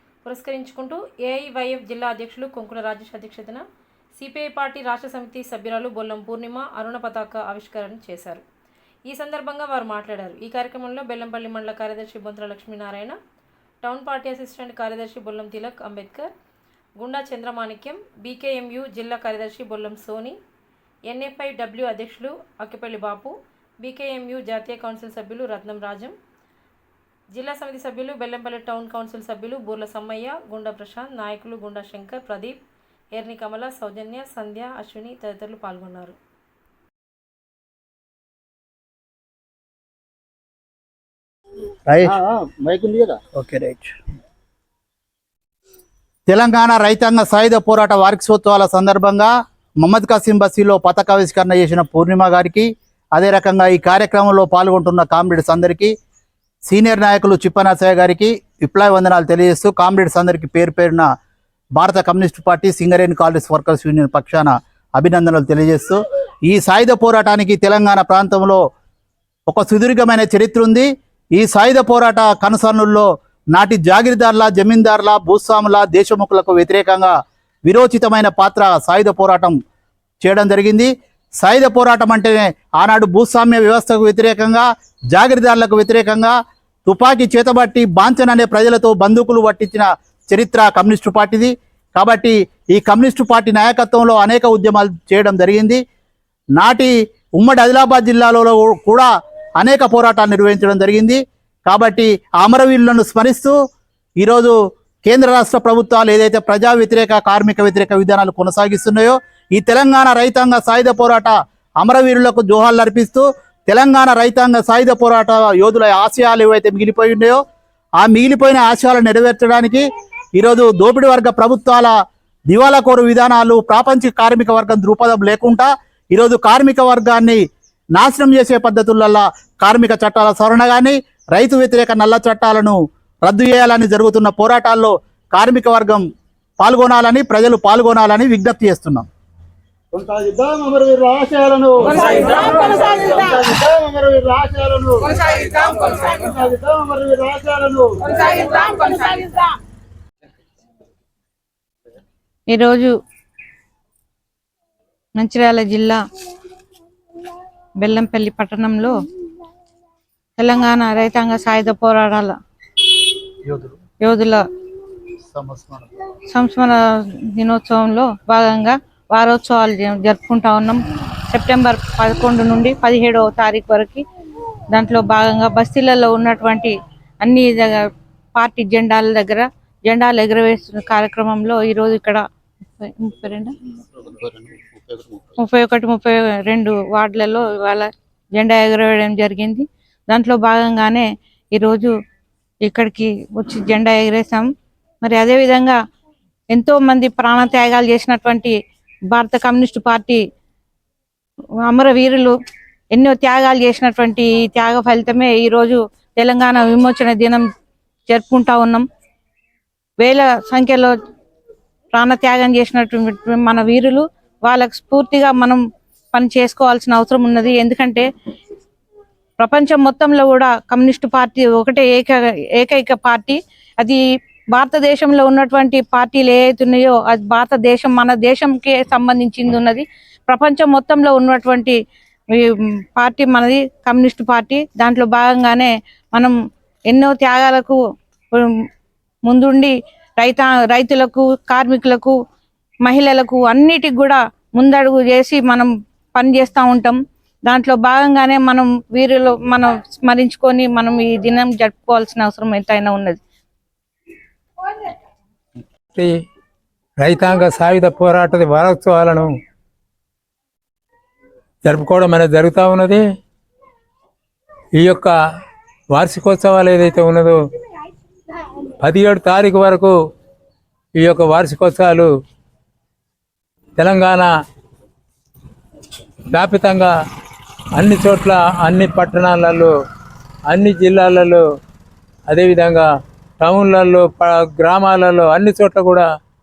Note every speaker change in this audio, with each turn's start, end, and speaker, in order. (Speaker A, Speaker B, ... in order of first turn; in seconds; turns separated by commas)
Speaker A: 0.2-3.6, Speaker A: 4.2-8.4, Speaker A: 9.1-13.2, Speaker A: 13.8-16.3, Speaker A: 17.0-20.4, Speaker A: 21.1-26.2, Speaker A: 27.3-32.6, Speaker A: 33.1-36.2, Speaker B: 41.9-42.2, Speaker C: 42.1-43.2, Speaker B: 43.4-44.0, Speaker B: 46.3-55.9, Speaker B: 56.7-61.1, Speaker B: 61.8-68.6, Speaker B: 69.5-77.1, Speaker B: 77.7-79.6, Speaker B: 80.2-86.3, Speaker B: 86.9-95.8, Speaker B: 96.6-103.6, Speaker B: 104.2-117.4, Speaker B: 118.0-119.8, Speaker B: 120.4-121.9, Speaker B: 122.5-127.4, Speaker B: 128.0-136.0, Speaker B: 136.6-139.1, Speaker C: 139.9-149.2, Speaker D: 152.5-152.9, Speaker D: 155.2-156.0, Speaker D: 157.8-158.9, Speaker D: 160.4-162.3, Speaker B: 163.5-163.7, Speaker D: 164.0-164.4, Speaker B: 165.3-165.8, Speaker D: 166.3-166.8, Speaker D: 167.4-174.0, Speaker D: 174.7-177.8, Speaker D: 178.4-182.2, Speaker D: 182.8-183.5, Speaker D: 185.4-191.9, Speaker D: 192.6-194.5, Speaker D: 195.0-195.8, Speaker D: 196.5-198.5, Speaker D: 199.1-200.2, Speaker D: 201.7-202.3, Speaker D: 202.9-207.4, Speaker D: 208.1-208.8, Speaker D: 210.0-210.9, Speaker D: 211.9-215.6, Speaker D: 216.1-218.1, Speaker D: 219.4-224.0, Speaker D: 224.5-231.8, Speaker D: 232.4-236.3, Speaker D: 236.9-237.8, Speaker D: 239.3-242.2, Speaker D: 242.8-253.2, Speaker E: 257.0-259.3, Speaker E: 261.6-263.0, Speaker E: 264.8-265.1, Speaker E: 265.9-267.4, Speaker E: 268.8-269.9, Speaker E: 271.0-272.1, Speaker E: 273.8-274.3, Speaker E: 276.3-276.9, Speaker E: 277.8-279.7, Speaker E: 280.5-281.4, Speaker E: 282.3-282.9, Speaker E: 283.4-286.1